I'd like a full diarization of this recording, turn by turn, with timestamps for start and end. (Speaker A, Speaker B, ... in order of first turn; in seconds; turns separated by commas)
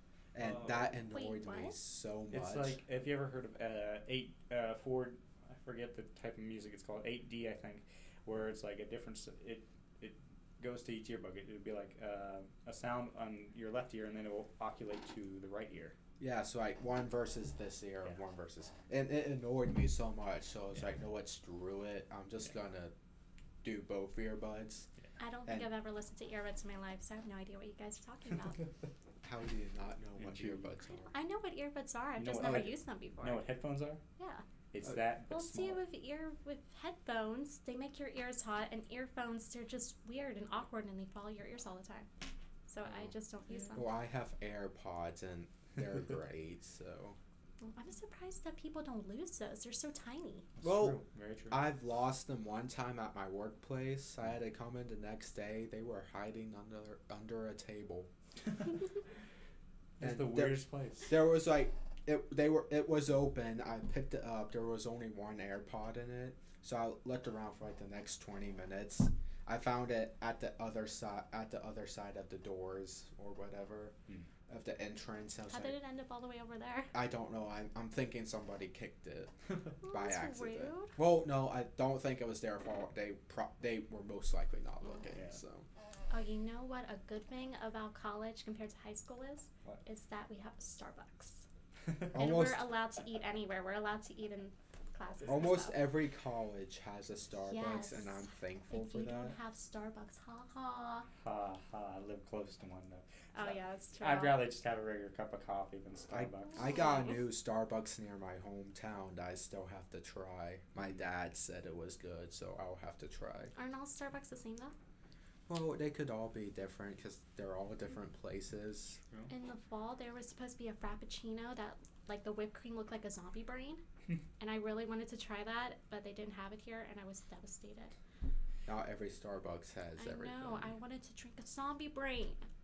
Speaker A: 0.3-2.8, Speaker B: 0.3-0.9, Speaker C: 1.1-1.8, Speaker B: 2.3-15.9, Speaker A: 16.2-22.9, Speaker A: 23.6-24.9, Speaker C: 25.2-28.6, Speaker A: 29.2-31.1, Speaker B: 30.2-30.8, Speaker C: 31.1-33.4, Speaker B: 32.2-34.0, Speaker C: 34.2-34.4, Speaker B: 34.7-35.8, Speaker C: 35.3-42.1, Speaker C: 42.7-43.9, Speaker A: 43.7-47.2, Speaker C: 47.6-50.5, Speaker B: 50.6-51.7, Speaker A: 50.6-58.1, Speaker B: 60.0-61.1, Speaker A: 60.0-73.9, Speaker A: 74.5-75.8, Speaker C: 75.5-76.9, Speaker A: 76.9-85.7, Speaker C: 79.8-81.0, Speaker B: 85.1-85.4, Speaker C: 86.1-91.5, Speaker A: 92.1-92.7, Speaker C: 92.1-95.8, Speaker A: 95.3-99.4, Speaker C: 97.5-101.1, Speaker B: 101.2-106.7, Speaker C: 103.3-104.4, Speaker A: 106.1-113.5, Speaker C: 106.5-107.2, Speaker B: 110.8-111.0, Speaker C: 113.5-114.7, Speaker A: 115.5-119.0, Speaker C: 119.3-123.8, Speaker C: 124.4-127.9, Speaker A: 128.7-130.7, Speaker C: 130.0-132.4